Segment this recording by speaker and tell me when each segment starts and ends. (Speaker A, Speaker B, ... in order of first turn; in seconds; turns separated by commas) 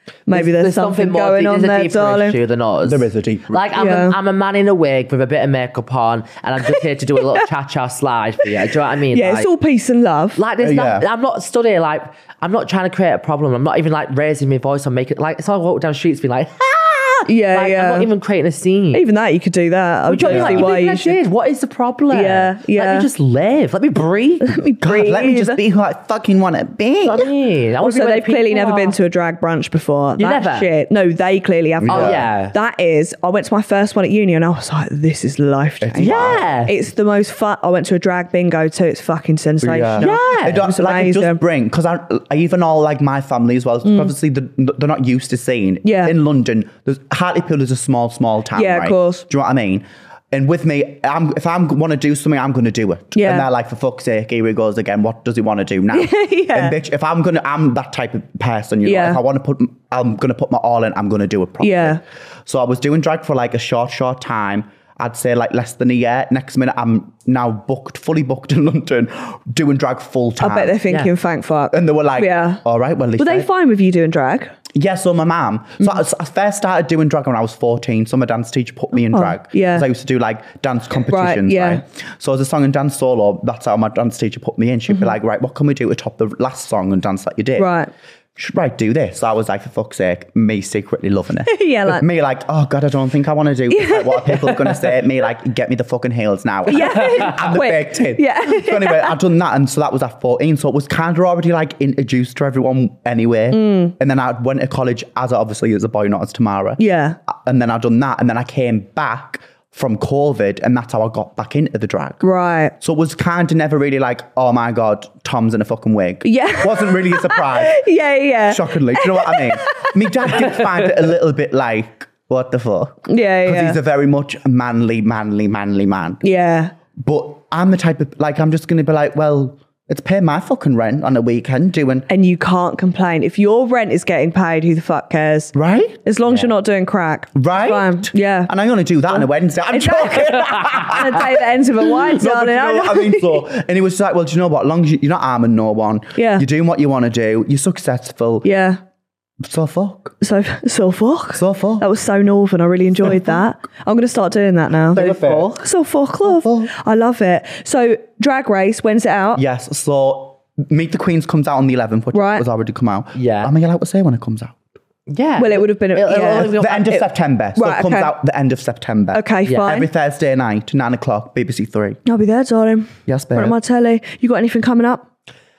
Speaker A: 0.3-2.4, Speaker B: 0.3-9.5, Speaker C: 2.8-3.7, Speaker A: 3.7-4.2, Speaker A: 9.1-10.4, Speaker B: 10.4-19.0, Speaker C: 10.6-11.1, Speaker A: 17.3-18.1, Speaker A: 18.9-21.2, Speaker B: 20.1-24.6, Speaker C: 20.2-20.7, Speaker A: 22.1-23.1, Speaker A: 24.4-25.6, Speaker C: 24.8-27.3, Speaker B: 27.0-29.0, Speaker A: 27.8-41.4, Speaker B: 30.2-30.7, Speaker C: 31.8-32.3, Speaker B: 31.9-32.5, Speaker C: 35.8-36.4, Speaker B: 36.0-36.8, Speaker C: 39.6-70.8, Speaker B: 40.0-40.7, Speaker A: 43.9-44.1, Speaker A: 45.8-46.1, Speaker A: 48.6-49.2, Speaker A: 53.2-53.5, Speaker A: 55.9-56.8, Speaker A: 58.9-59.2, Speaker A: 61.6-62.0, Speaker A: 70.4-72.6, Speaker C: 71.7-73.5, Speaker A: 73.2-74.5, Speaker C: 74.7-87.7, Speaker A: 79.1-79.9, Speaker A: 81.1-81.8, Speaker A: 87.6-87.9, Speaker C: 88.4-112.2, Speaker A: 91.5-92.0, Speaker A: 93.7-95.0, Speaker A: 96.7-99.2, Speaker B: 97.0-97.3, Speaker A: 103.5-103.9, Speaker A: 106.8-107.2, Speaker A: 112.2-112.7, Speaker C: 112.8-117.8, Speaker A: 116.2-120.6, Speaker C: 118.5-126.2, Speaker A: 123.1-123.8, Speaker A: 126.2-126.7, Speaker C: 127.0-132.1, Speaker A: 132.1-138.5, Speaker C: 135.6-136.0, Speaker B: 136.2-136.5, Speaker C: 137.4-148.5, Speaker A: 139.1-143.4, Speaker A: 146.2-146.5, Speaker A: 148.4-148.8, Speaker C: 149.4-150.2, Speaker A: 150.2-159.4, Speaker C: 151.4-151.9, Speaker C: 153.0-153.4, Speaker C: 154.9-155.6, Speaker B: 154.9-155.6, Speaker C: 156.2-156.7, Speaker C: 159.4-164.6, Speaker A: 162.1-162.4, Speaker B: 163.2-163.5, Speaker B: 165.1-167.0, Speaker A: 165.4-167.0, Speaker C: 166.3-172.0, Speaker A: 167.6-168.1, Speaker A: 169.1-169.9, Speaker B: 169.4-169.7, Speaker A: 172.1-175.1, Speaker C: 173.1-173.6